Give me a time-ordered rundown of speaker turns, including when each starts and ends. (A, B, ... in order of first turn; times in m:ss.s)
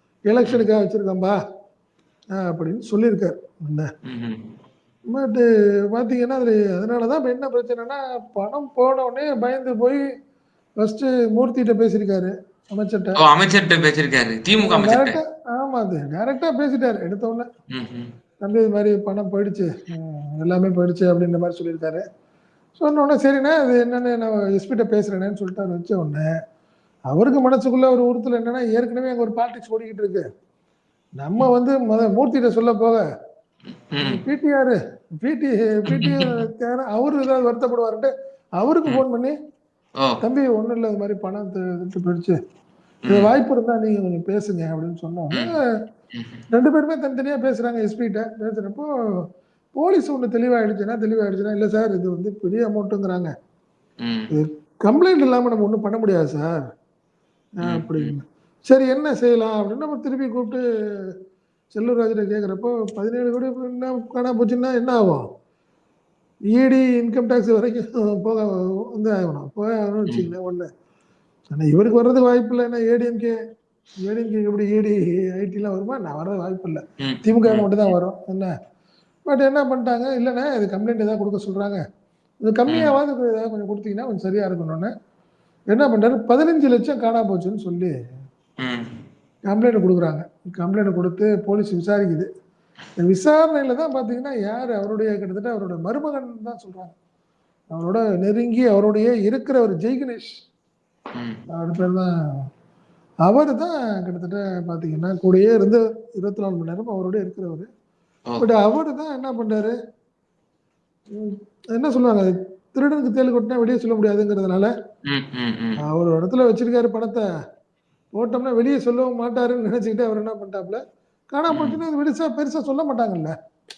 0:00.3-0:01.4 A
0:02.4-0:03.9 A
0:04.1-0:04.5 B
0:05.1-0:10.0 A
0:10.8-0:13.2 A
0:13.2-0:15.2 B
0:14.6-0:17.5 A
0:17.7-0:18.1 B
0:18.4-0:22.0 A
0:22.8-0:26.3 A
0:27.1-0:30.2 A
0:31.2-0:33.0 A
0:33.9-0:34.2 B
0:34.0-0:39.4 A
0:35.9-0:36.3 B
0:40.2-0:42.4 A
0:43.1-0:45.5 A
0:46.1-0:46.4 B
0:46.5-0:48.9 A
0:49.8-0:53.3 A
0:54.0-0:54.3 B
0:54.3-0:56.6 A
0:57.6-1:00.6 A
0:57.7-0:58.1 B
1:01.7-1:05.2 A
1:06.5-1:10.7 A
1:11.5-1:13.4 A
1:14.0-1:18.5 A
1:17.0-1:17.9 B
1:19.3-1:21.8 A
1:22.4-1:24.9 A
1:22.7-1:23.0 B
1:25.7-1:27.9 A
1:28.6-1:28.9 B
1:29.5-1:32.3 A
1:33.0-1:37.0 A
1:37.7-1:40.4 A
1:41.5-1:42.1 A
1:43.2-1:47.7 A
1:48.4-1:49.7 A
1:51.2-1:54.7 A
1:55.1-1:55.8 B
1:55.8-1:57.2 A
1:58.2-2:00.8 A
2:01.3-2:03.3 A
2:01.5-2:01.8 B